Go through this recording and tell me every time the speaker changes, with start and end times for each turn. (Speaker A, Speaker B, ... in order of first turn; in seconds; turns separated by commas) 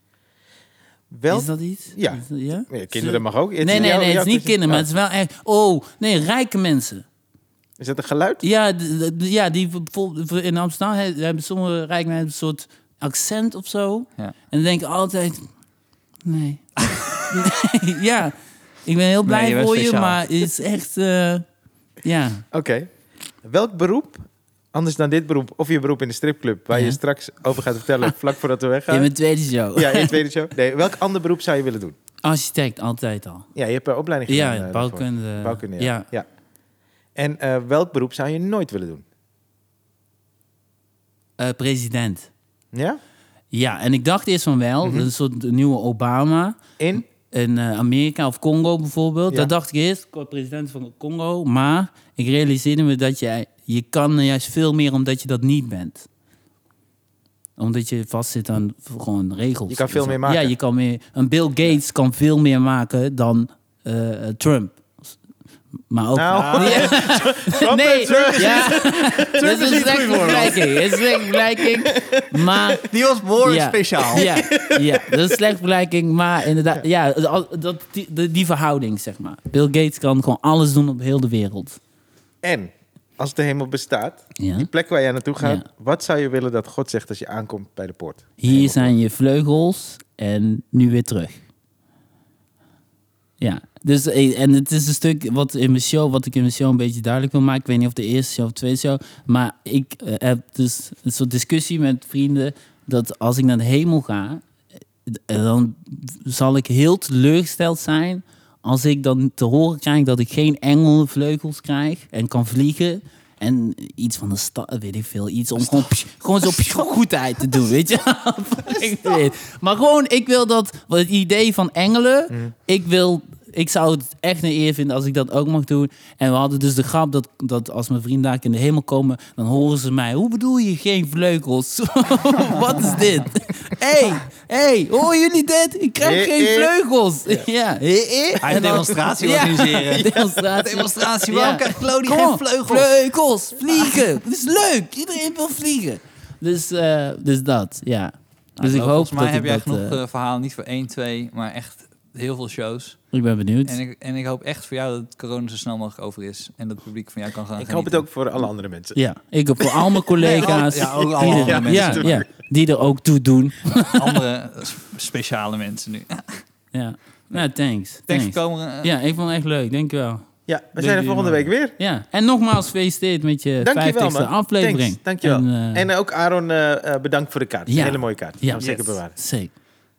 Speaker A: 1.1-4.9, Speaker B: 1.3-7.0, Speaker A: 7.8-8.4, Speaker B: 8.4-15.5, Speaker B: 16.2-21.4, Speaker C: 19.2-20.2, Speaker B: 22.0-22.4, Speaker A: 22.5-22.9, Speaker A: 23.4-29.1, Speaker B: 26.7-27.0, Speaker B: 28.9-30.2, Speaker A: 29.8-32.0, Speaker B: 32.2-33.5, Speaker A: 33.5-36.3, Speaker B: 34.3-36.1, Speaker A: 37.2-39.0, Speaker B: 41.4-42.3, Speaker A: 42.7-43.0, Speaker B: 43.5-46.6, Speaker A: 44.8-45.1, Speaker A: 46.8-47.0, Speaker B: 47.2-56.1, Speaker B: 57.6-65.1, Speaker A: 59.7-60.5, Speaker B: 65.9-72.9, Speaker A: 66.2-72.8, Speaker C: 66.3-67.0, Speaker C: 68.1-68.4, Speaker C: 72.8-74.3, Speaker B: 73.4-81.8, Speaker A: 74.2-75.4, Speaker A: 82.4-88.9, Speaker B: 84.4-84.7, Speaker B: 88.4-91.4, Speaker B: 93.4-104.4, Speaker B: 105.1-150.0, Speaker A: 136.0-136.7, Speaker C: 138.4-142.9, Speaker A: 139.7-140.4, Speaker C: 143.7-144.0, Speaker C: 148.6-153.0, Speaker B: 153.1-153.8, Speaker C: 153.7-158.1, Speaker A: 157.6-159.0, Speaker B: 158.9-164.2, Speaker A: 159.6-160.0, Speaker C: 160.2-162.2, Speaker A: 161.0-162.2, Speaker C: 163.9-166.4, Speaker B: 166.7-170.2, Speaker C: 168.1-168.9, Speaker A: 170.5-171.8, Speaker C: 170.8-171.5, Speaker B: 171.8-175.9, Speaker A: 173.6-179.1, Speaker B: 177.7-179.5, Speaker C: 178.6-179.0